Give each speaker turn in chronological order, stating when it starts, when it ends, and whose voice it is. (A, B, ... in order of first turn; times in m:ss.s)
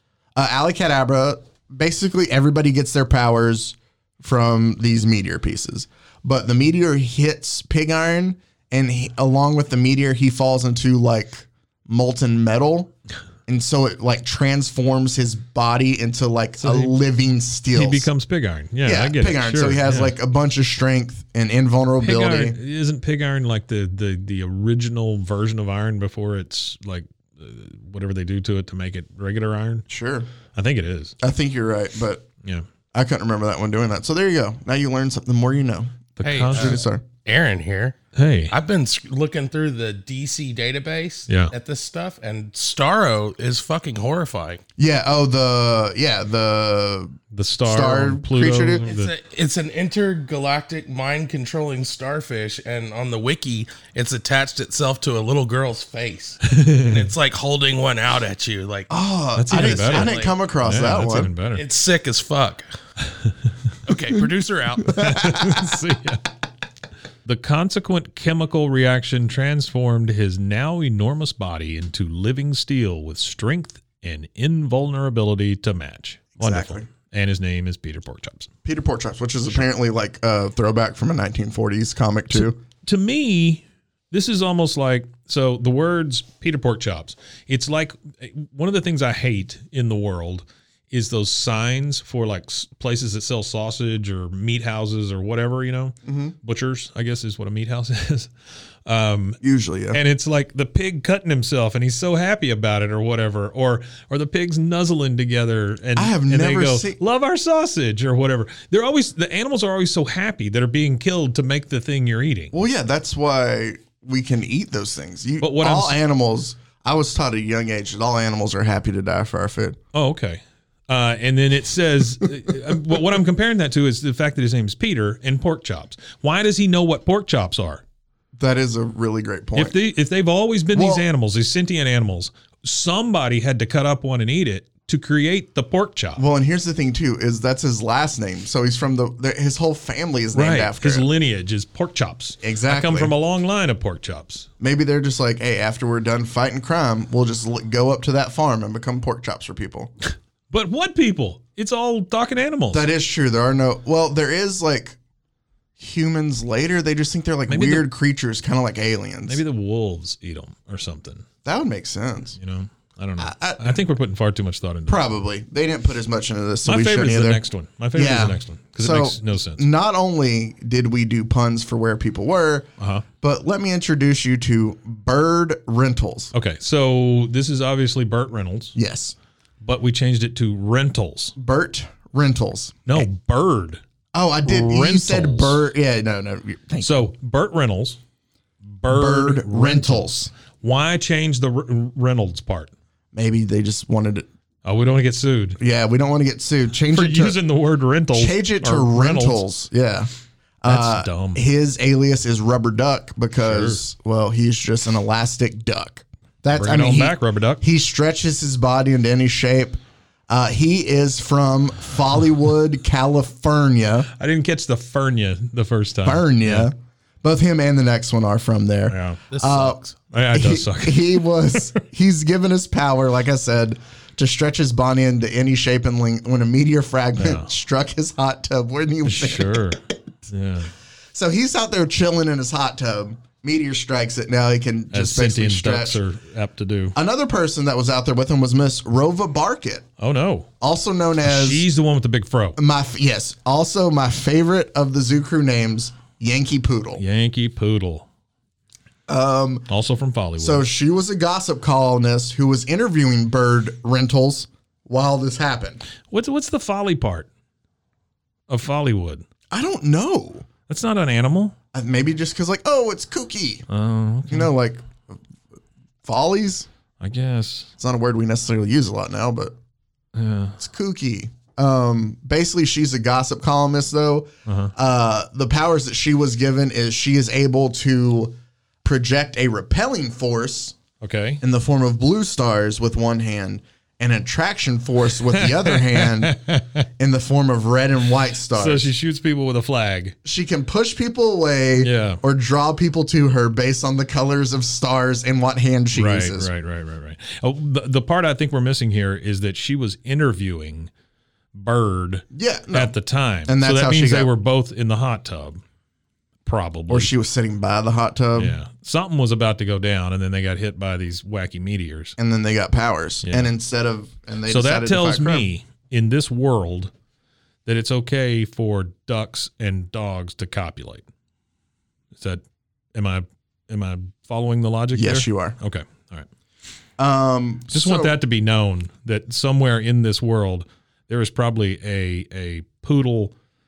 0:00.4-0:12.9 A
0:13.5-0:18.1 A
0:16.6-0:16.9 B
0:17.7-0:20.1 B
0:18.8-0:22.6 A
0:22.0-0:29.8 B
0:29.9-0:30.3 A
0:30.5-0:31.2 B
0:31.2-0:32.3 A
0:32.9-0:37.0 A
0:36.2-0:36.8 B
0:36.2-0:38.0 C
0:38.1-0:38.5 B
0:38.5-0:44.6 C
0:41.3-0:41.5 B
0:44.8-0:48.9 A
0:47.3-0:49.1 B
0:48.9-0:58.9 C
0:56.5-0:57.0 B
0:58.9-1:01.3 A
0:59.4-1:01.6 B
0:59.5-1:00.4 C
1:01.5-1:02.6 C
1:03.9-1:05.0 C
1:04.9-1:06.2 B
1:05.0-1:05.6 A
1:07.2-1:18.5 B
1:16.4-1:16.9 A
1:18.6-1:22.6 A
1:22.3-1:38.3 B
1:36.0-1:36.4 A
1:38.9-1:39.4 B
1:39.4-1:40.0 A
1:39.9-1:52.5 B
1:46.0-1:47.0 A
1:52.5-1:59.8 A
1:55.4-1:56.0 B
1:59.9-2:07.8 B
2:08.4-2:09.8 A
2:09.6-2:16.2 B
2:10.7-2:11.0 A
2:16.2-2:21.1 A
2:20.4-2:24.5 B
2:22.4-2:23.1 A
2:24.6-2:29.9 A
2:30.5-2:32.9 B
2:32.7-2:35.0 A
2:35.8-2:39.4 A
2:37.5-2:37.9 B
2:39.3-2:41.2 B
2:41.4-2:42.4 A
2:42.4-2:45.1 B
2:43.2-2:43.8 A
2:44.9-2:47.4 A
2:46.6-2:49.6 B
2:47.9-2:52.7 A
2:52.8-2:53.0 B
2:53.2-2:56.3 A
2:56.3-2:58.7 B
2:58.7-2:59.1 A
2:59.6-3:01.4 B
3:01.4-3:03.1 A
3:02.9-3:03.8 B
3:04.1-3:07.1 A
3:04.4-3:05.6 B
3:06.8-3:08.0 B
3:08.7-3:12.7 B
3:08.9-3:10.3 A
3:13.1-3:14.3 A
3:14.6-3:15.6 B
3:15.6-3:17.4 A
3:16.9-3:19.4 B
3:18.1-3:20.1 A
3:20.6-3:34.1 A
3:20.6-3:21.4 B
3:23.4-3:23.8 B
3:26.5-3:27.6 B
3:34.2-3:36.7 B
3:36.0-3:39.8 A
3:38.9-3:39.2 B
3:39.3-3:39.9 C
3:40.0-3:41.7 B
3:40.3-3:50.0 A
3:47.2-3:47.5 B
3:49.0-3:50.7 B
3:51.1-3:56.0 A
3:54.9-3:57.0 B
3:56.9-3:59.9 A
4:00.0-4:00.5 B
4:00.6-4:01.6 A
4:01.2-4:02.6 B
4:02.6-4:07.0 A
4:07.0-4:08.0 B
4:09.1-4:09.7 A
4:09.7-4:10.7 B
4:10.4-4:15.8 A
4:16.1-4:17.3 B
4:18.5-4:19.2 B
4:19.5-4:20.5 A
4:20.7-4:21.5 B
4:21.7-4:23.7 A
4:23.7-4:24.5 B
4:24.3-4:24.8 A
4:26.0-4:26.7 A
4:27.0-4:27.7 B
4:27.8-4:29.5 A
4:30.1-4:30.6 B
4:30.6-4:40.8 A
4:34.4-4:34.7 B
4:41.0-4:41.4 B
4:41.4-4:46.4 A
4:45.3-4:46.9 B
4:47.0-4:48.9 A
4:48.5-4:50.2 B
4:50.2-4:56.5 A
4:51.8-4:52.2 B
4:55.9-5:00.9 B
5:01.5-5:05.6 B
5:02.3-5:02.9 A
5:03.5-5:04.3 A
5:06.4-5:07.1 B
5:06.9-5:08.6 A
5:08.4-5:12.2 B
5:12.2-5:15.5 A
5:13.2-5:13.5 B
5:14.5-5:16.9 B
5:17.6-5:21.0 B
5:22.1-5:22.4 B
5:22.9-5:26.3 B
5:24.9-5:25.6 A
5:27.0-5:28.1 A
5:27.7-5:33.4 B